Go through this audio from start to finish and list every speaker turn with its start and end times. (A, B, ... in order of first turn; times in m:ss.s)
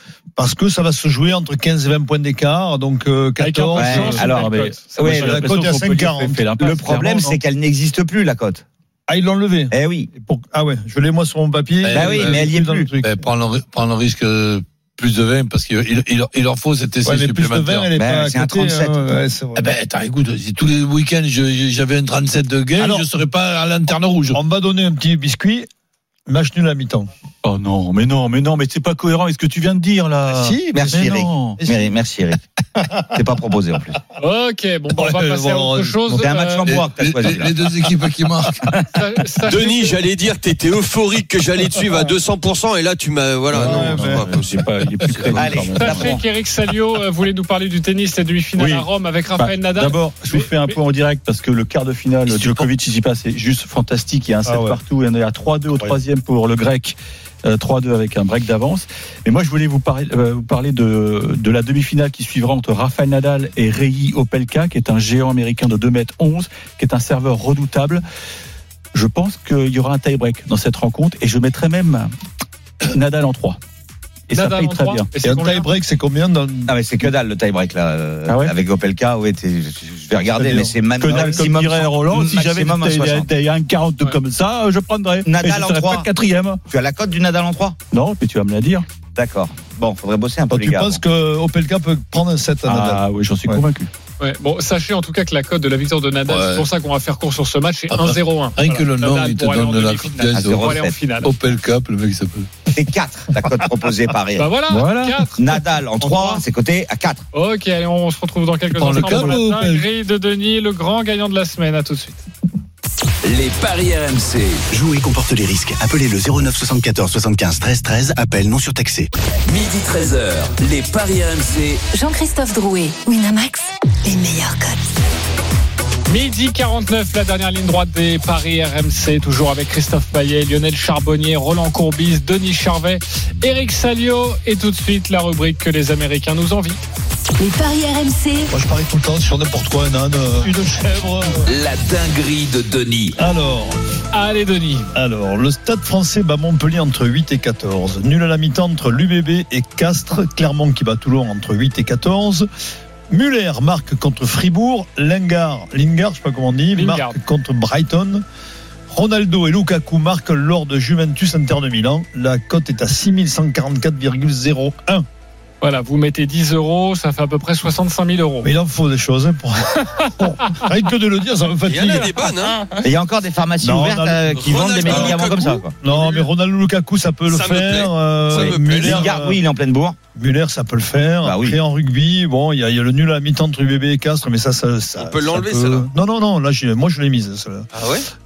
0:00.4-0:04.4 A
0:03.4-0:05.4 B
0:03.8-0:05.4 C
0:04.0-0:07.4 D
0:05.0-0:06.4 A
0:06.6-0:08.6 C
0:09.1-0:13.1 A
0:09.7-0:10.1 C
0:11.8-0:12.5 E
0:11.9-0:12.9 C
0:13.0-0:17.9 E
0:17.0-0:19.7 A
0:18.0-0:19.2 C
0:19.5-0:24.4 E
0:22.8-0:23.1 A
0:24.3-0:25.7 A
0:26.3-0:27.1 A
0:27.4-0:31.6 D
0:30.3-0:31.1 A
0:30.7-0:32.4 C
0:31.6-0:31.9 A
0:33.1-0:34.0 C
0:34.2-0:36.6 B
0:34.9-0:36.2 A
0:36.2-0:37.7 C
0:36.6-0:38.7 E
0:38.9-0:40.0 B
0:39.5-0:44.6 F
0:43.5-0:44.2 A
0:43.5-0:46.2 D
0:45.0-0:45.4 E
0:45.3-0:46.2 C
0:45.8-0:50.8 B
0:48.6-1:08.0 D
0:52.3-0:52.7 E
0:54.4-0:54.8 A
1:08.9-1:12.1 D
1:12.8-1:13.6 D
1:14.3-1:15.1 D
1:14.3-1:15.7 B
1:15.2-1:16.7 A
1:16.7-1:23.3 C
1:18.3-1:18.5 D
1:20.4-1:21.4 A
1:21.0-1:26.6 D
1:25.2-1:26.1 C
1:26.7-1:27.8 C
1:27.9-1:28.8 D
1:29.1-1:31.0 C
1:30.5-1:33.6 A
1:32.6-1:33.9 D
1:34.2-1:41.3 B
1:36.3-1:36.6 E
1:37.9-1:42.6 E
1:40.3-1:41.0 C
1:42.7-1:44.5 C
1:44.4-1:45.4 B
1:44.7-1:45.2 D
1:45.4-1:47.2 C
1:46.0-1:46.4 B
1:47.3-1:52.2 B
1:48.7-1:49.8 E
1:48.9-1:49.5 A
1:53.2-1:54.6 G
1:54.7-1:59.1 H
1:59.4-2:01.8 G
2:01.9-2:04.9 I
2:06.1-2:16.8 B
2:17.4-2:18.5 I
2:18.5-2:21.5 A
2:21.4-2:23.2 G
2:23.2-2:23.7 A
2:24.1-2:24.9 B
2:24.9-2:32.5 A
2:33.1-2:38.2 A
2:36.7-2:37.2 B
2:38.9-2:45.0 A
2:45.6-2:48.5 B
2:48.4-2:52.1 A
2:49.8-2:50.6 B
2:51.6-2:52.6 F
2:52.8-2:55.7 C
2:53.6-2:55.2 A
2:54.4-2:56.3 F
2:55.8-2:59.4 A
2:57.3-2:59.1 F
2:58.4-3:00.0 C
3:00.1-3:07.7 A
3:01.2-3:01.6 C
3:05.0-3:05.9 F
3:07.7-3:08.1 F